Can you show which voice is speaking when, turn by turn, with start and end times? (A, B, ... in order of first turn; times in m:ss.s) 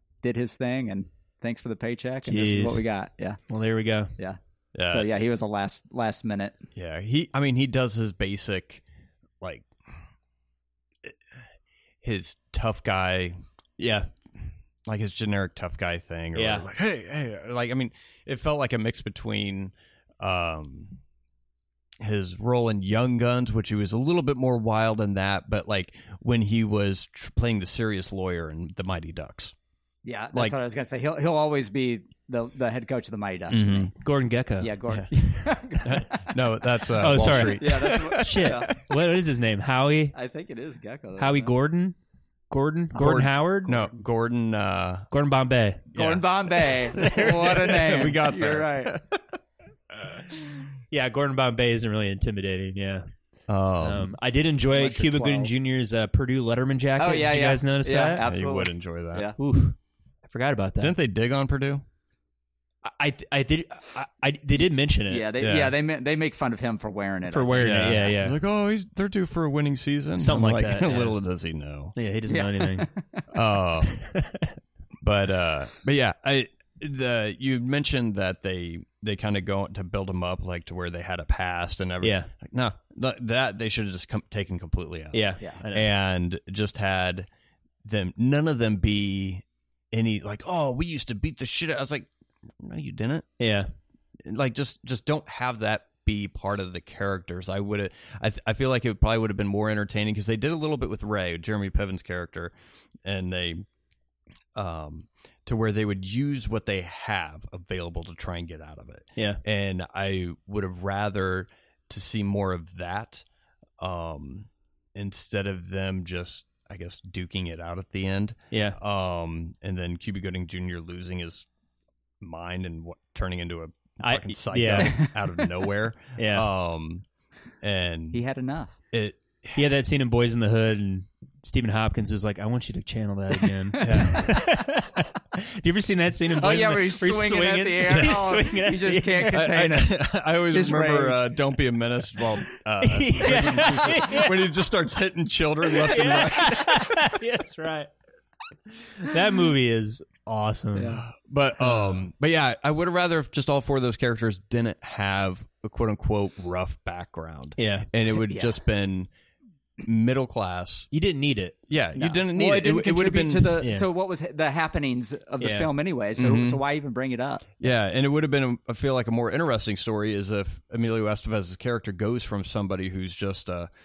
0:00.2-0:03.4 A
0:02.2-0:02.8 B
0:03.5-0:04.1 B
0:04.2-0:06.6 A
0:04.7-0:05.1 C
0:06.7-0:08.8 C
0:09.4-0:09.7 C
0:12.0-0:13.4 C
0:13.8-0:14.1 B
0:14.8-0:21.0 C
0:16.3-0:16.6 B
0:22.0-0:29.5 C
0:30.0-0:33.9 A
0:33.5-0:33.9 C
0:33.9-0:34.8 B
0:34.6-0:36.3 A
0:35.8-0:38.8 C
0:37.0-0:40.2 B
0:37.4-0:38.7 A
0:40.1-0:41.5 A
0:41.2-0:41.9 B
0:42.5-0:43.7 B
0:42.9-0:45.1 C
0:45.1-0:45.9 B
0:45.9-0:49.2 C
0:45.9-0:49.0 A
0:50.9-0:53.1 B
0:53.5-0:54.1 C
0:53.8-0:58.2 B
0:54.7-0:55.5 A
0:57.0-0:59.4 A
0:58.2-0:59.3 C
0:59.4-1:00.9 B
1:00.8-1:01.8 C
1:02.8-1:05.3 B
1:05.1-1:08.2 A
1:05.4-1:05.7 C
1:07.3-1:08.4 B
1:07.6-1:11.9 C
1:10.2-1:11.2 B
1:12.0-1:12.9 B
1:12.3-1:13.2 A
1:13.3-1:14.0 C
1:13.9-1:14.6 B
1:15.0-1:27.3 C
1:22.0-1:22.3 B
1:25.1-1:25.9 B
1:27.8-1:33.3 C
1:33.4-1:33.7 B
1:34.2-1:42.5 C
1:43.0-1:43.6 C
1:44.5-1:53.2 C
1:53.8-2:01.5 C
1:58.5-1:58.8 B
2:02.2-2:07.0 C
2:04.0-2:05.1 B
2:04.8-2:05.1 A
2:06.2-2:06.4 B
2:07.6-2:08.2 C
2:08.1-2:08.7 A
2:08.9-2:09.6 C
2:09.6-2:19.5 B
2:13.7-2:14.1 A
2:13.8-2:14.3 C
2:16.4-2:21.3 A
2:19.3-2:27.0 C
2:22.8-2:24.5 B
2:25.7-2:27.9 B
2:28.8-2:31.0 B
2:30.7-2:31.0 A
2:31.0-2:39.1 C
2:31.6-2:32.0 B
2:37.6-2:37.9 B
2:38.3-2:38.5 A
2:39.8-2:40.9 C
2:40.9-2:41.6 B
2:41.7-2:43.6 C
2:42.0-2:47.5 A
2:43.6-2:43.9 B
2:45.4-2:45.7 B
2:46.2-2:46.6 C
2:47.6-2:53.7 C